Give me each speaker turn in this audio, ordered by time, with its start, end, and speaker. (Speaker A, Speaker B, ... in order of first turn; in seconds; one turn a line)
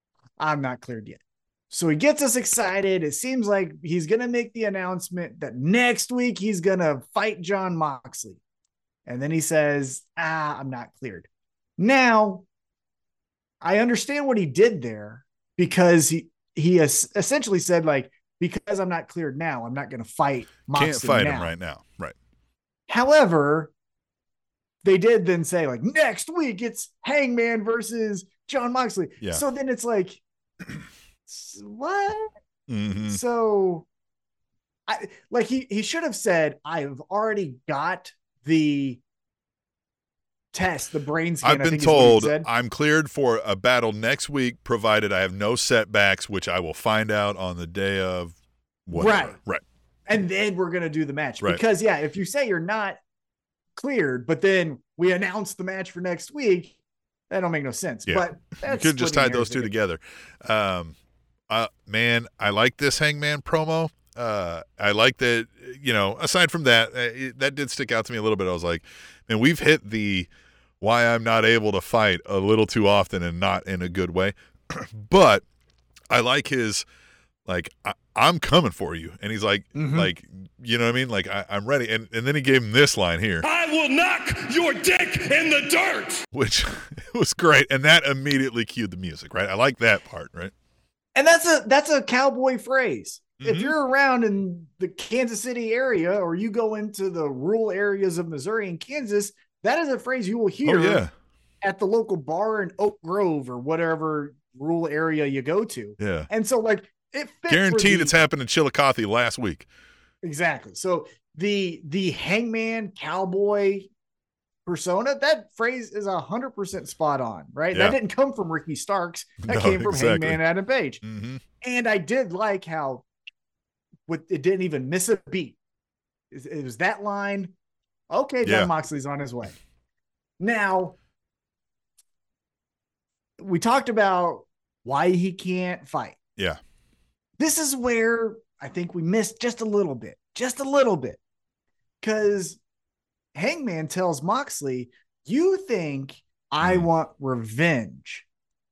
Speaker A: 0.4-8.4
Speaker A: 9.1-12.4
Speaker A: 13.6-21.5
Speaker B: 20.7-22.1
Speaker A: 22.9-23.7
Speaker A: 24.8-30.2
Speaker A: 31.3-32.3
Speaker B: 32.7-33.2
Speaker A: 33.1-33.9
Speaker A: 34.9-39.0
Speaker A: 40.5-42.5
Speaker B: 41.4-49.6
Speaker A: 48.9-49.4
Speaker A: 50.1-53.0
Speaker A: 53.8-56.7
Speaker A: 57.3-59.7
Speaker B: 58.0-61.0
Speaker B: 61.5-70.3
Speaker B: 70.8-75.4
Speaker B: 76.1-76.8
Speaker B: 77.5-83.4
Speaker A: 79.7-80.1
Speaker C: 83.4-86.2
Speaker B: 86.3-90.5
Speaker A: 91.1-101.0
Speaker B: 93.4-93.7
Speaker B: 100.6-101.1
Speaker A: 101.6-108.2
Speaker B: 106.0-106.3
Speaker B: 107.5-109.7
Speaker A: 110.2-113.9
Speaker A: 114.7-121.0
Speaker B: 119.4-120.4
Speaker B: 121.0-121.4
Speaker A: 121.6-123.0
Speaker A: 124.1-125.6
Speaker A: 126.3-127.5
Speaker A: 128.1-129.6
Speaker B: 128.4-128.7
Speaker A: 130.4-130.9
Speaker A: 133.4-136.2
Speaker A: 137.4-141.2
Speaker A: 142.0-142.6
Speaker A: 143.3-148.2
Speaker B: 146.6-146.9